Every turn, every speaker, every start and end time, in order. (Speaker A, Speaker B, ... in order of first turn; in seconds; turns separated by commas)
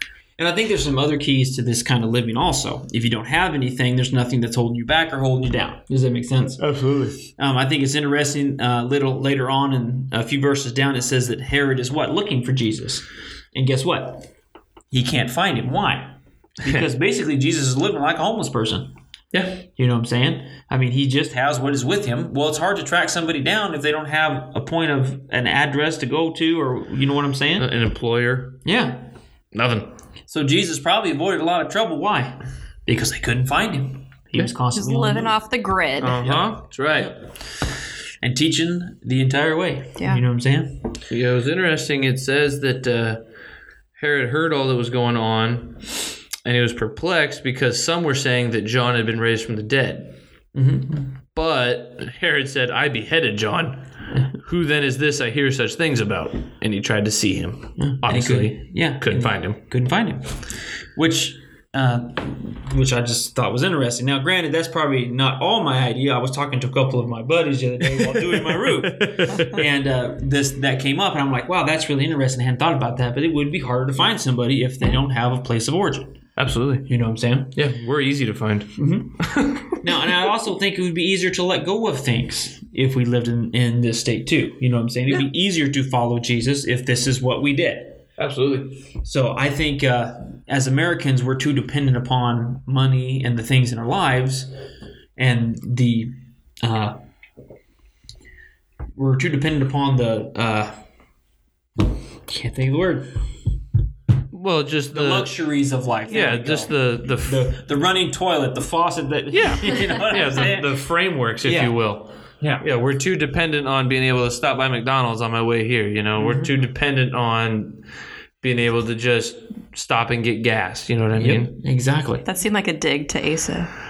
Speaker A: 0.4-6.6, Speaker B: 6.6-7.2, Speaker A: 7.3-14.3, Speaker A: 14.9-18.9, Speaker B: 19.3-19.6, Speaker A: 19.8-27.7, Speaker B: 27.6-28.6, Speaker A: 28.6-29.0, Speaker B: 29.5-29.9, Speaker A: 30.3-32.3, Speaker A: 32.9-35.3, Speaker C: 34.7-36.2, Speaker B: 36.0-37.1, Speaker A: 36.0-37.2, Speaker A: 38.2-40.8, Speaker C: 40.0-40.2, Speaker B: 41.1-43.2, Speaker B: 44.0-45.9, Speaker B: 46.4-50.2, Speaker A: 50.5-51.1, Speaker B: 51.3-59.6, Speaker A: 57.8-76.2, Speaker B: 68.0-69.6, Speaker B: 76.4-76.9, Speaker A: 76.8-77.5, Speaker B: 77.5-79.8, Speaker A: 78.8-79.2, Speaker A: 79.8-88.0, Speaker B: 88.2-88.8, Speaker A: 89.0-94.5, Speaker A: 95.2-97.0, Speaker A: 99.0-100.8, Speaker A: 102.2-103.1, Speaker B: 104.3-105.3, Speaker A: 104.9-110.7, Speaker B: 106.1-107.5, Speaker B: 109.3-117.8, Speaker A: 111.4-111.8, Speaker A: 112.4-112.6, Speaker A: 116.2-116.5, Speaker B: 118.4-121.5, Speaker A: 121.2-122.2, Speaker C: 122.2-123.7